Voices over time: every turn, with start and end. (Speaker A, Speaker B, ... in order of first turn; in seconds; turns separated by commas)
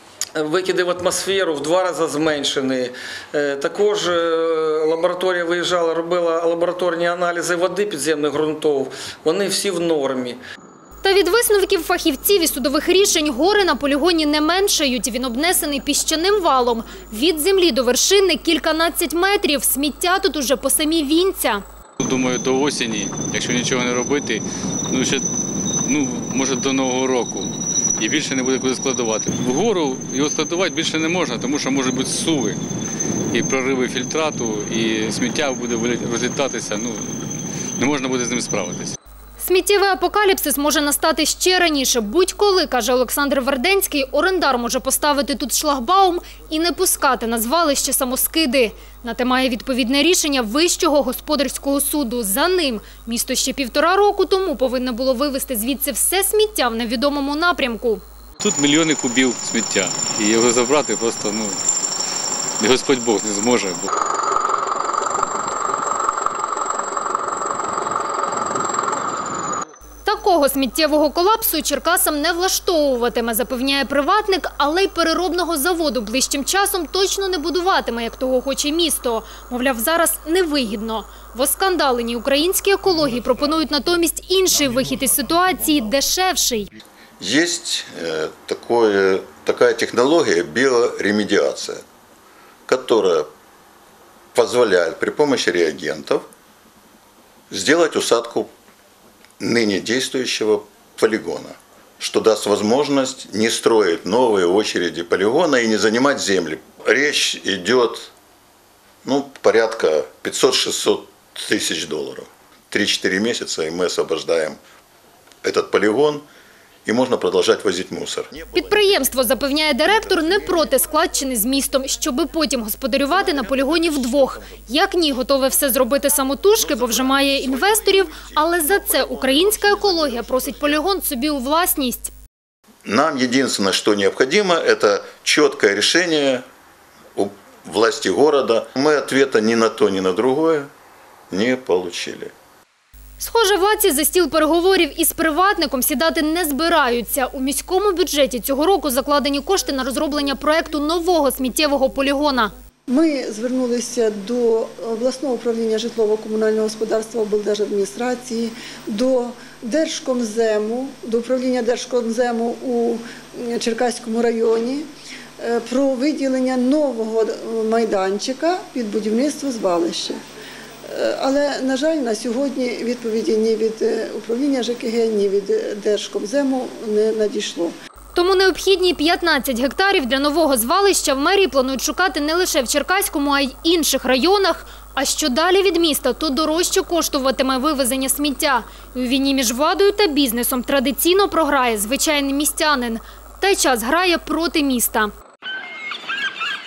Speaker A: 0.3-10.4, Speaker B: 11.0-21.6, Speaker C: 22.0-25.2, Speaker C: 25.8-32.6, Speaker C: 33.3-39.0, Speaker B: 39.4-58.0, Speaker C: 58.4-61.6, Speaker C: 62.6-63.9, Speaker B: 70.0-86.7, Speaker D: 87.2-91.8, Speaker D: 92.7-93.3, Speaker D: 94.3-96.3, Speaker D: 97.5-98.5, Speaker D: 99.4-108.1, Speaker D: 109.0-114.6, Speaker D: 115.4-116.3, Speaker D: 116.8-119.2, Speaker B: 118.5-132.1, Speaker D: 119.9-120.6, Speaker D: 126.7-128.4, Speaker D: 129.0-130.2, Speaker D: 132.8-136.5, Speaker D: 137.2-140.7, Speaker D: 141.3-142.3, Speaker B: 143.2-152.5, Speaker E: 152.9-164.8, Speaker E: 165.4-170.2, Speaker E: 170.9-177.7, Speaker B: 178.2-195.1